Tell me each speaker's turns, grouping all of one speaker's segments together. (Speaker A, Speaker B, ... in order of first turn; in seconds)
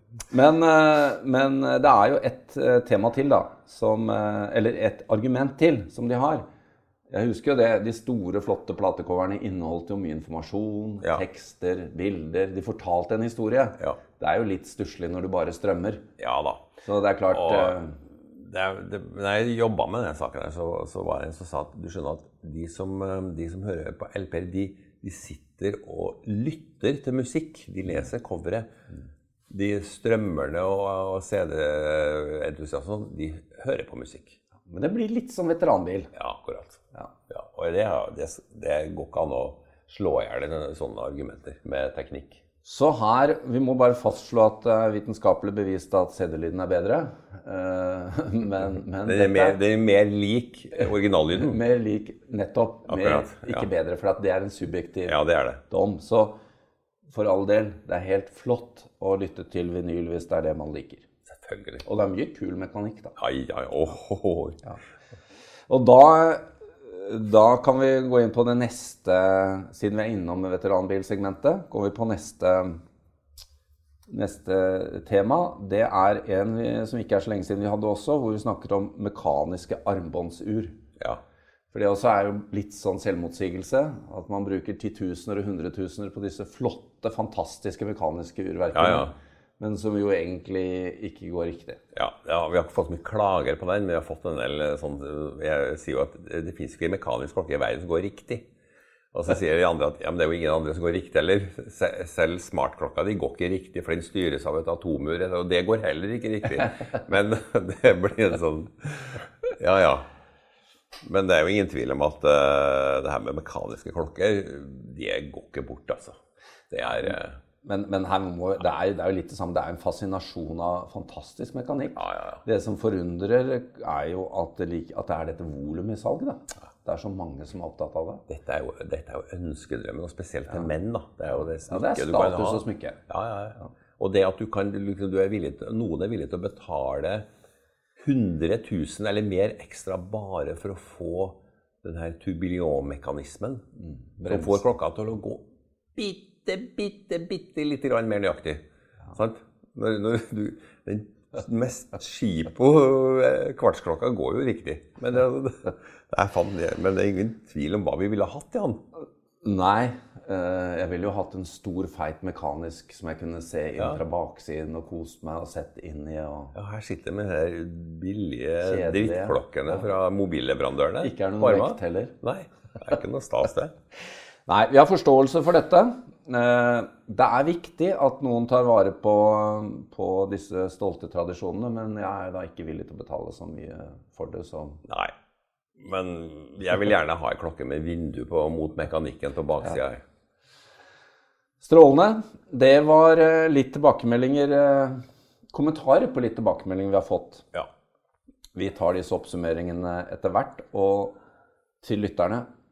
Speaker A: 0.3-6.4, 7.1-16.0, 16.8-18.0, 34.6-36.1, 42.6-49.6, 50.8-55.1, 55.7-56.3, 57.1-61.0, 61.8-63.1, 65.7-72.8, 74.1-80.8, 81.7-91.8, 116.9-128.2, 131.3-133.0, 143.8-144.6, 159.4-166.5, 168.6-169.8, 171.0-172.1, 174.4-184.8, 191.6-195.0, 195.5-197.4, 198.6-201.2, 201.8-202.5
Speaker B: 16.2-16.6, 17.3-28.7, 29.5-34.4, 36.1-42.4, 49.0-51.6, 52.9-53.7, 55.0-55.6, 61.3-61.8, 63.2-64.6, 88.7-89.1, 91.9-98.5, 99.1-110.1, 111.0-116.2, 116.7-117.4, 122.0-122.4, 128.3-137.2, 138.0-143.6, 144.2-145.4, 145.9-148.6, 149.1-158.8, 166.5-173.7, 184.8-185.1, 185.8-190.0